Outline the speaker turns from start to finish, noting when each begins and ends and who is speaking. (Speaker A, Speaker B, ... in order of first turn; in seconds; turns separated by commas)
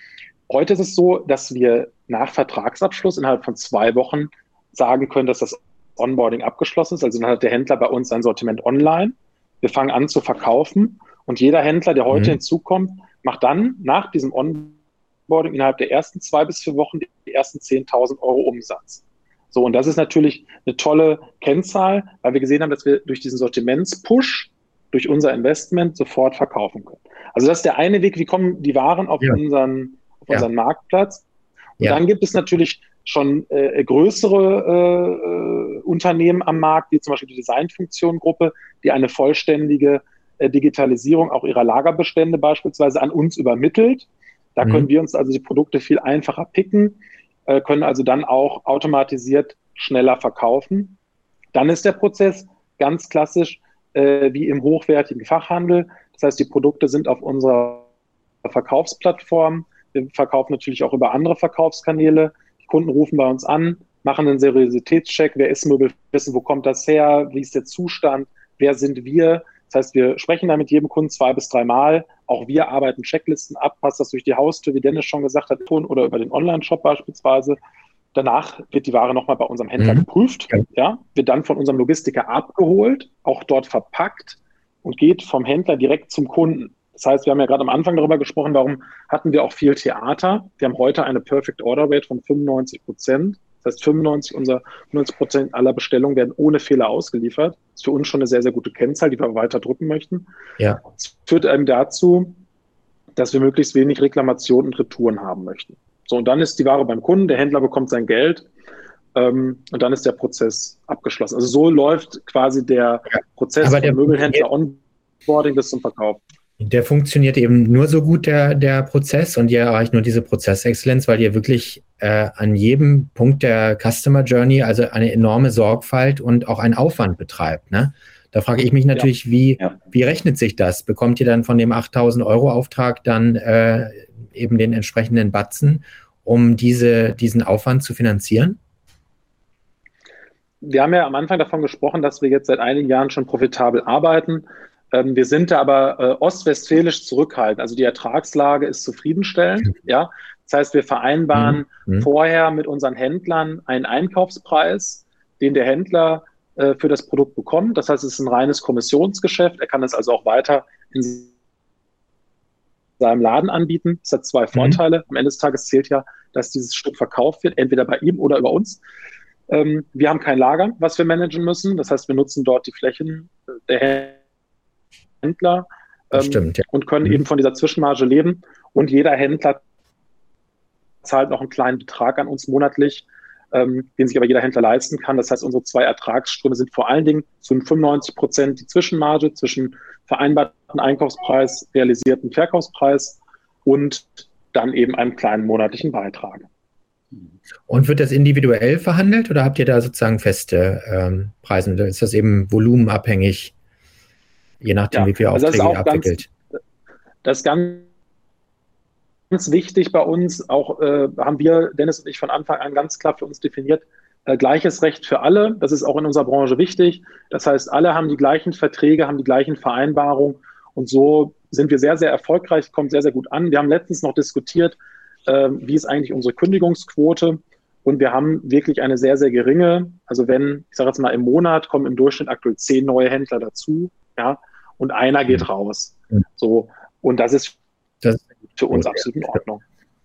Speaker A: 0.5-31.2, Speaker B: 12.1-12.4, Speaker A: 31.8-51.0, Speaker A: 51.5-57.9, Speaker A: 58.4-77.6, Speaker A: 78.1-100.3, Speaker B: 79.8-80.0, Speaker A: 101.0-102.4, Speaker A: 103.2-108.5, Speaker A: 109.1-116.2, Speaker B: 113.6-114.5, Speaker B: 116.6-138.6, Speaker A: 140.6-161.3, Speaker B: 151.3-152.1, Speaker A: 163.0-168.8, Speaker B: 164.5-164.8, Speaker A: 169.5-174.2, Speaker A: 175.2-179.6, Speaker B: 176.1-177.2, Speaker A: 181.0-196.4, Speaker B: 197.7-203.5, Speaker B: 204.6-206.3, Speaker A: 204.9-206.2, Speaker A: 207.2-207.8, Speaker A: 209.3-237.6, Speaker B: 238.0-239.0, Speaker A: 238.6-239.6